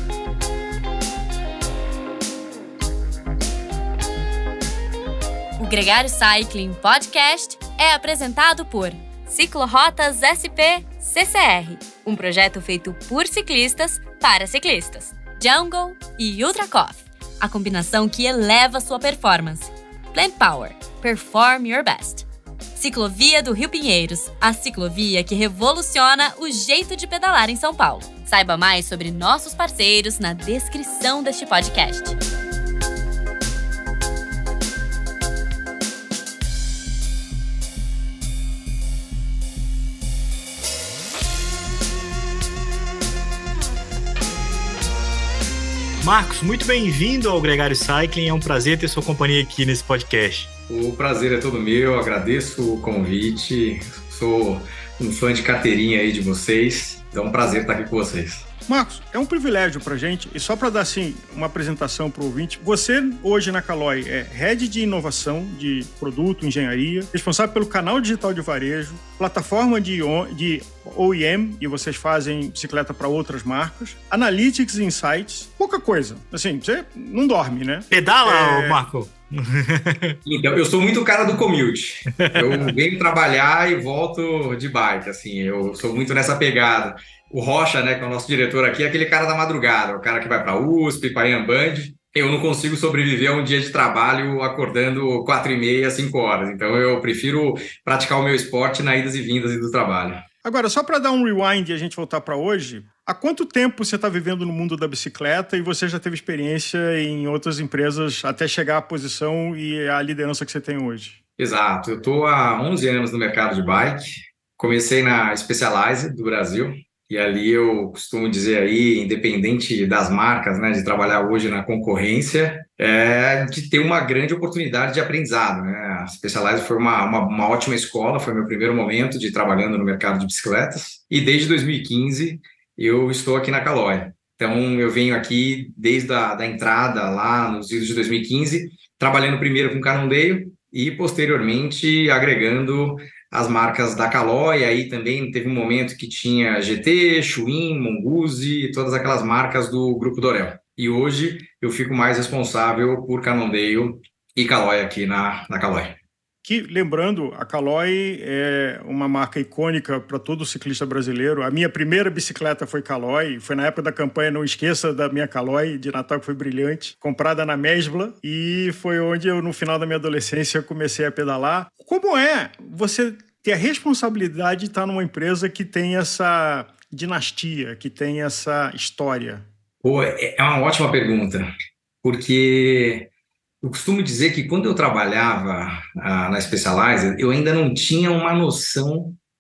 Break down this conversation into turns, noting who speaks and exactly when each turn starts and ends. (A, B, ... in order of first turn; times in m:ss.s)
0:05.6-0:32.2 A
0:46.0-0:50.5 B
0:50.7-0:58.4 C
0:58.7-1:18.8 D
1:17.9-1:20.2 B
1:20.2-1:40.2 C
1:22.1-1:22.7 B
1:40.4-1:51.2 D
1:51.4-2:36.0 C
2:36.4-2:59.4 D
2:59.8-3:01.5 C
3:02.0-3:03.1 C
3:03.6-3:09.2 C